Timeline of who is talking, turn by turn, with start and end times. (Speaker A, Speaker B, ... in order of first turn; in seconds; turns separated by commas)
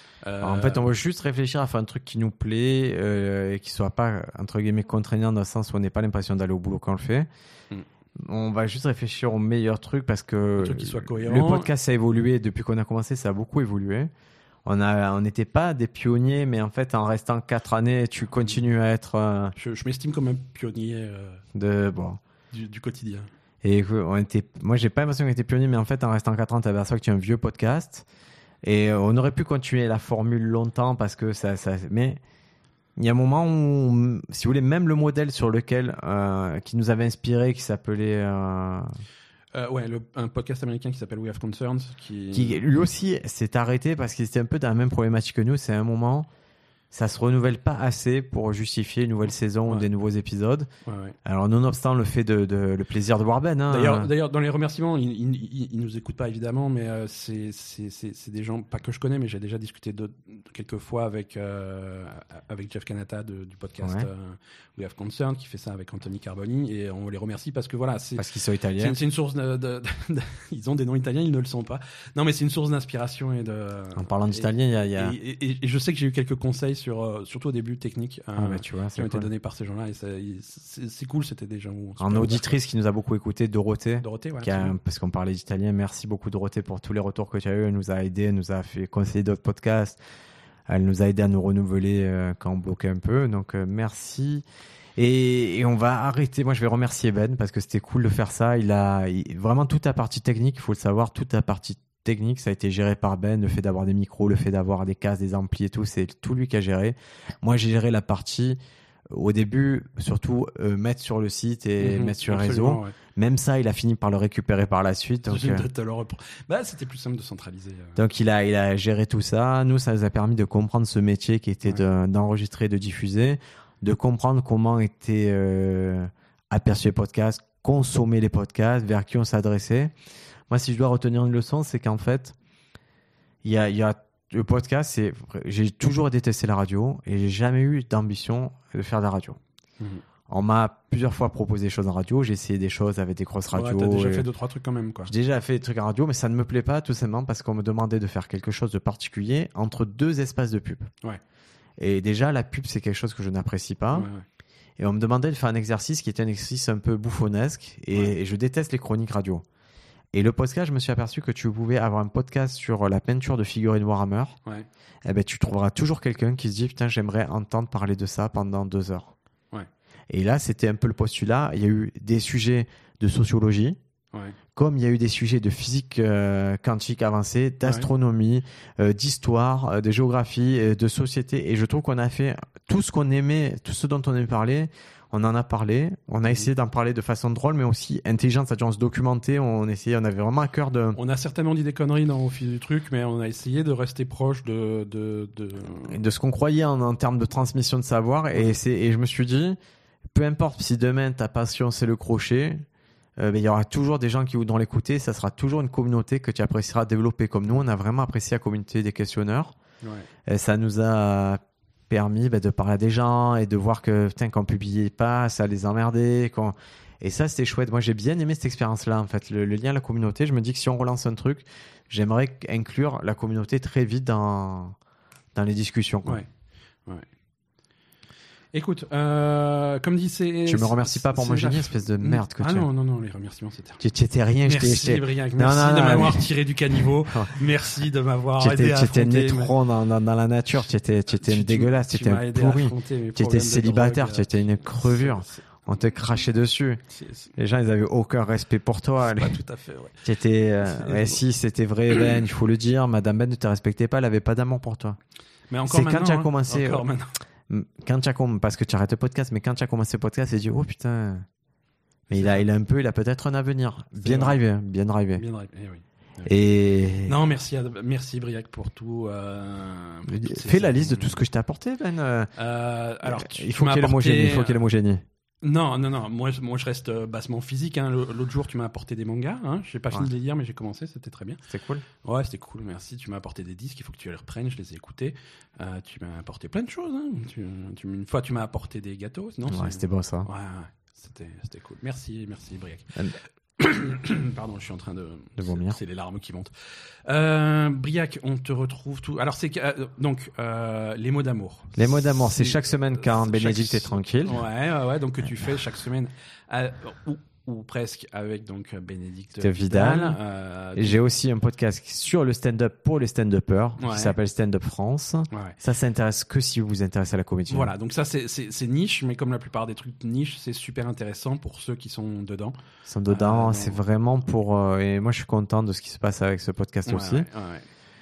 Speaker A: 0.2-0.9, Speaker B: 0.4-7.3, Speaker B: 8.2-14.1, Speaker A: 10.6-11.7, Speaker B: 14.7-19.6, Speaker A: 19.6-21.4, Speaker B: 21.6-22.2, Speaker A: 22.5-23.3, Speaker B: 23.6-28.1, Speaker B: 28.6-32.2, Speaker B: 33.0-38.9, Speaker A: 39.5-42.6, Speaker B: 42.3-46.3, Speaker B: 46.9-50.7, Speaker A: 50.9-51.2, Speaker B: 51.2-54.1, Speaker A: 53.7-68.3, Speaker B: 63.8-64.1, Speaker B: 68.2-69.0, Speaker A: 68.8-82.6, Speaker B: 74.0-75.2, Speaker B: 78.4-79.3, Speaker B: 82.0-90.0, Speaker A: 84.0-84.8, Speaker B: 90.7-94.5, Speaker B: 95.0-108.6, Speaker B: 109.1-115.7, Speaker A: 111.8-113.0, Speaker A: 115.3-118.0, Speaker B: 118.0-129.9, Speaker B: 130.5-132.4, Speaker B: 133.4-139.4, Speaker B: 140.3-144.3, Speaker A: 143.5-145.1, Speaker B: 145.1-150.9, Speaker B: 151.8-154.1, Speaker A: 153.9-154.2, Speaker B: 154.8-159.4, Speaker B: 160.1-164.4, Speaker B: 165.1-169.1, Speaker B: 170.1-173.8, Speaker A: 174.1-174.4, Speaker B: 174.6-191.0, Speaker A: 190.9-196.0, Speaker B: 195.8-199.6, Speaker B: 200.1-202.6, Speaker B: 203.2-209.6, Speaker A: 209.8-210.1, Speaker B: 210.3-224.8, Speaker B: 225.3-226.2, Speaker A: 228.5-233.8, Speaker B: 230.5-232.7, Speaker B: 233.8-236.3, Speaker A: 234.4-239.6, Speaker B: 236.8-237.3, Speaker B: 238.4-246.8, Speaker A: 241.1-245.6, Speaker A: 246.9-247.3, Speaker B: 247.4-249.4, Speaker A: 249.0-250.1, Speaker B: 250.0-255.0, Speaker A: 250.6-251.2, Speaker A: 255.5-257.1, Speaker B: 255.7-256.9, Speaker B: 257.5-261.3, Speaker B: 262.1-265.2, Speaker A: 262.1-262.4, Speaker A: 264.0-264.4, Speaker A: 265.2-266.4, Speaker B: 266.3-267.1, Speaker A: 267.1-271.2, Speaker B: 270.1-272.3, Speaker A: 272.4-274.6, Speaker B: 273.0-275.0, Speaker A: 275.4-281.4, Speaker B: 281.5-281.9, Speaker A: 282.0-293.1, Speaker B: 289.5-290.3, Speaker A: 293.6-296.5, Speaker B: 295.4-295.8, Speaker A: 297.1-311.0, Speaker B: 301.8-304.4, Speaker B: 309.4-310.2, Speaker B: 310.8-317.7, Speaker A: 313.8-314.1, Speaker A: 315.3-315.6, Speaker A: 317.5-322.6, Speaker B: 322.9-327.3, Speaker A: 323.1-323.8, Speaker A: 326.9-327.7